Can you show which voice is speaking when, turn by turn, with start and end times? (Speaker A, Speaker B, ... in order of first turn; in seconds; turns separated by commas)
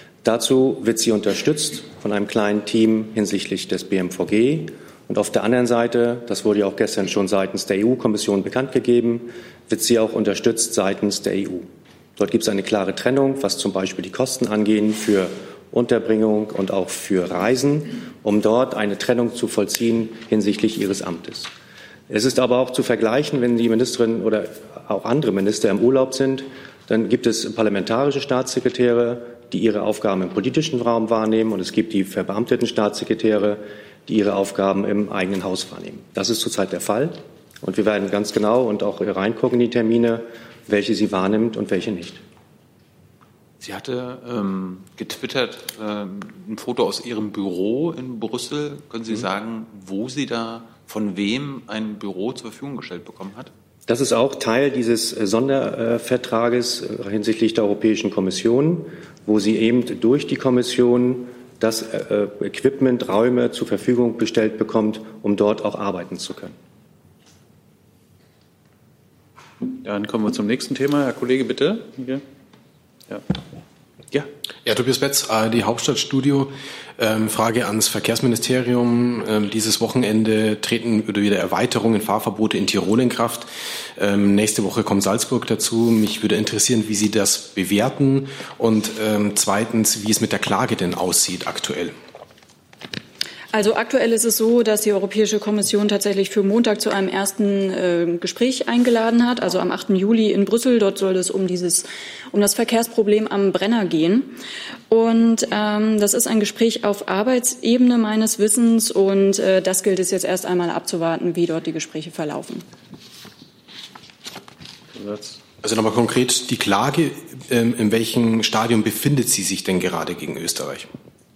Speaker A: 0.2-21.5, Speaker A: 22.1-42.2, Speaker B: 43.6-53.5, Speaker A: 53.9-66.5, Speaker C: 69.8-72.2, Speaker D: 74.6-91.9, Speaker E: 93.5-104.4, Speaker E: 104.9-112.7, Speaker C: 114.9-115.4, Speaker D: 115.6-120.9